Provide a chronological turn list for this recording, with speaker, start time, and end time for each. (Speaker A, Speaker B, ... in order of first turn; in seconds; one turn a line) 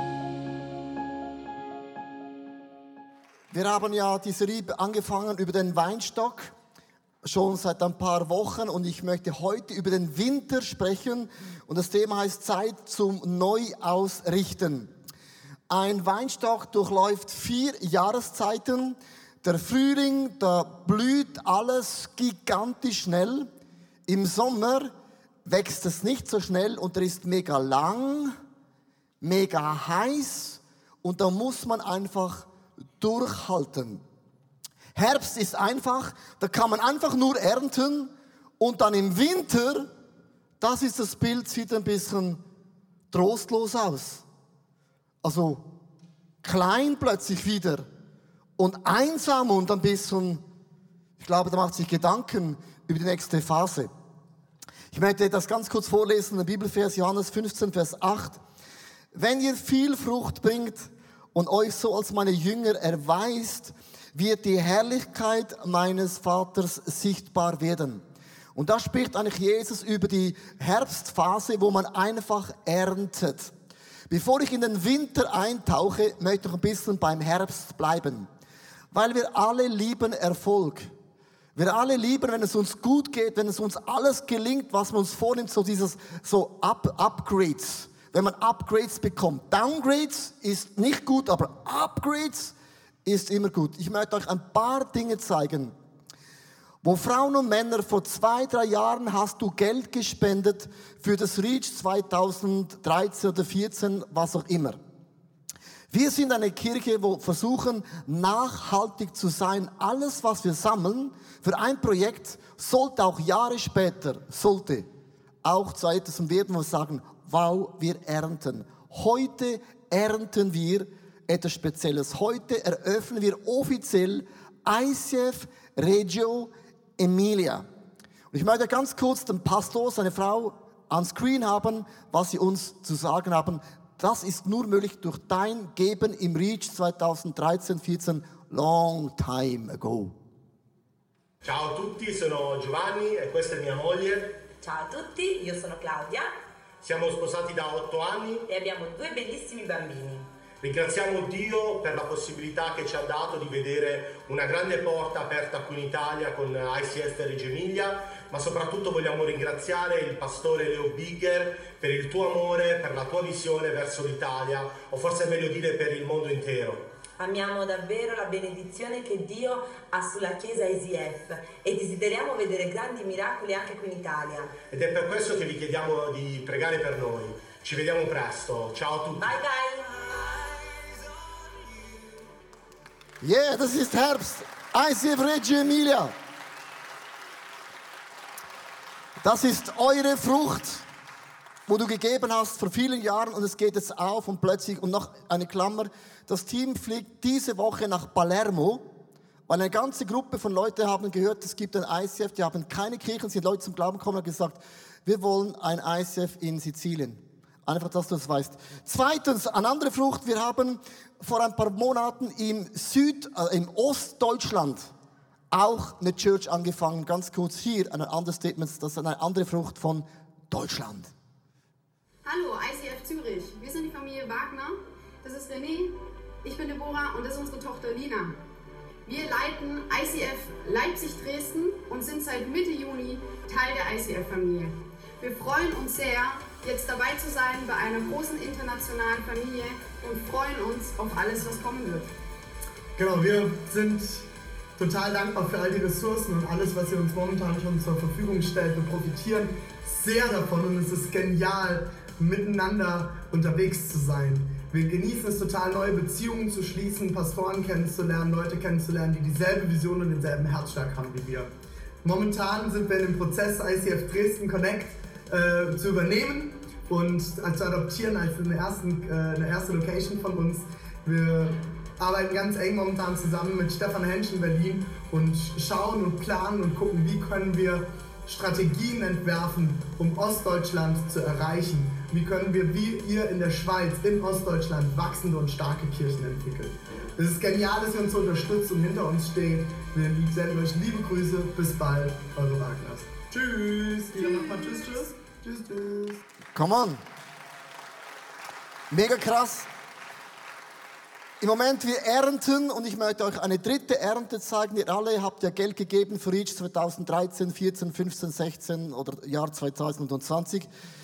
Speaker A: 3.5-6.5
Speaker A: 7.2-14.9
Speaker A: 15.7-23.5
Speaker A: 24.1-24.9
Speaker A: 25.4-28.4
Speaker A: 29.2-34.0
Speaker A: 34.9-39.9
Speaker A: 40.6-42.4
Speaker A: 43.1-44.2
Speaker A: 45.2-45.7
Speaker A: 46.4-47.9
Speaker A: 48.6-50.4
Speaker A: 51.2-53.9
Speaker A: 54.9-58.4
Speaker A: 59.1-68.0
Speaker A: 68.5-73.5
Speaker A: 74.1-78.3
Speaker A: 78.9-80.9
Speaker A: 81.5-95.7
Speaker A: 96.8-104.8
Speaker A: 105.9-114.9
Speaker A: 115.4-127.7
Speaker A: 128.3-140.2
Speaker B: 141.4-144.3
Speaker C: 144.6-146.3
Speaker B: 146.8-148.4
Speaker C: 148.5-150.3
Speaker B: 150.6-166.8
Speaker C: 167.2-174.5
Speaker B: 174.7-179.3
Speaker C: 179.2-180.7
Speaker A: 183.2-186.1
Speaker A: 189.2-190.8
Speaker A: 191.7-198.8
Speaker A: 199.5-214.9
Speaker A: 215.5-221.1
Speaker D: 222.2-228.4
Speaker D: 229.1-242.1
Speaker E: 242.9-244.2
Speaker E: 244.8-261.5
Speaker E: 262.0-296.2
Speaker D: 294.1-295.0
Speaker A: 296.5-297.0
Speaker A: 298.9-299.7
Speaker A: 301.4-310.7